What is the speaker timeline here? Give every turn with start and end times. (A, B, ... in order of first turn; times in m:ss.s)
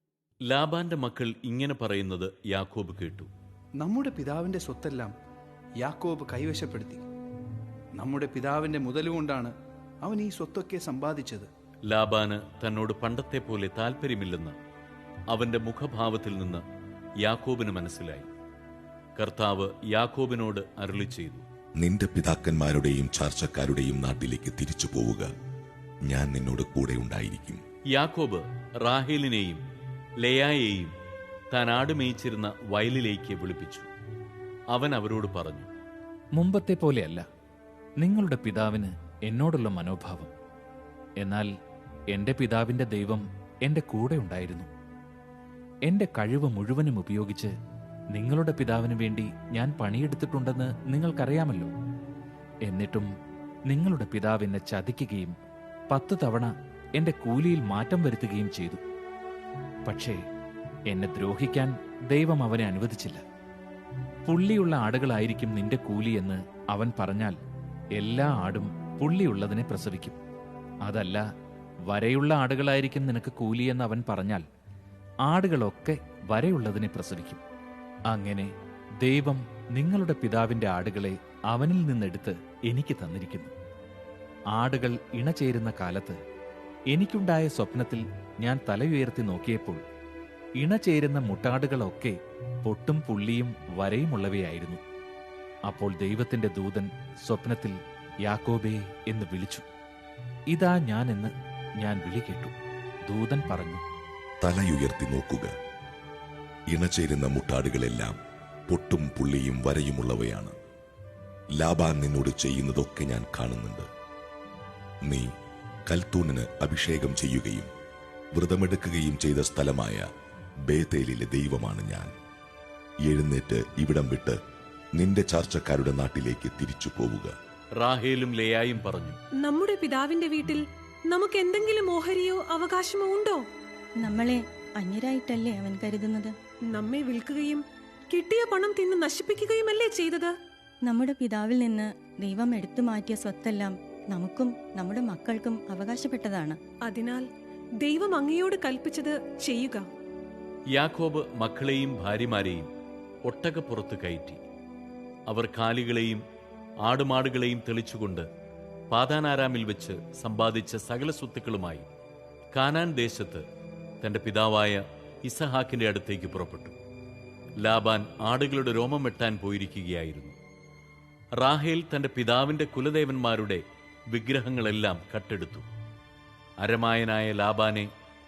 0:00.5-0:03.3 A
0:03.8-0:05.1 B
0:05.8-0:07.0 B
0:08.0-0:11.5 B
0:11.9-0:14.6 A
0:15.3-0:16.6 A
0:17.2-0:18.3 A
0:19.2-0:21.5 A
0:21.8-0:25.3 C
0:26.1-0:27.6 C
0:27.9-0:29.6 A
0:30.2-0:30.9 A
0:31.5-0:33.9 A
0:34.7-0:35.7 A
0:36.4-0:37.2 D
0:38.0-0:40.3 D
0:41.2-0:41.5 D
0:42.1-0:44.7 D
0:45.9-0:47.5 D
0:48.1-0:51.7 D
0:52.7-0:53.1 D
0:53.7-0:55.4 D
0:55.9-0:58.8 D
0:59.9-1:00.2 D
1:00.9-1:03.2 D
1:04.3-1:07.4 D
1:08.0-1:10.2 D
1:10.9-1:11.2 D
1:11.9-1:14.4 D
1:15.3-1:17.4 D
1:18.1-1:18.5 D
1:19.0-1:23.5 D
1:24.5-1:26.2 D
1:26.9-1:29.8 D
1:30.6-1:34.8 D
1:35.7-1:39.6 D
1:40.5-1:42.5 D
1:43.1-1:43.8 D
1:44.4-1:45.5 C
1:46.7-1:48.2 C
1:48.7-1:50.5 C
1:51.6-1:53.9 C
1:55.9-1:57.7 C
1:58.3-2:00.0 C
2:00.7-2:02.1 C
2:03.0-2:04.4 C
2:05.0-2:07.3 C
2:07.8-2:09.2 A
2:09.4-2:13.4 E
2:14.0-2:16.4 F
2:16.7-2:20.3 E
2:20.8-2:26.6 F
2:26.8-2:27.3 E
2:27.8-2:29.9 E
2:30.8-2:32.7 A
2:33.3-2:34.4 A
2:35.3-2:36.2 A
2:36.9-2:38.3 A
2:38.9-2:41.8 A
2:42.5-2:43.4 A
2:44.0-2:46.8 A
2:47.6-2:50.4 A
2:51.4-2:53.6 A
2:54.1-2:55.6 A
2:56.6-2:57.9 A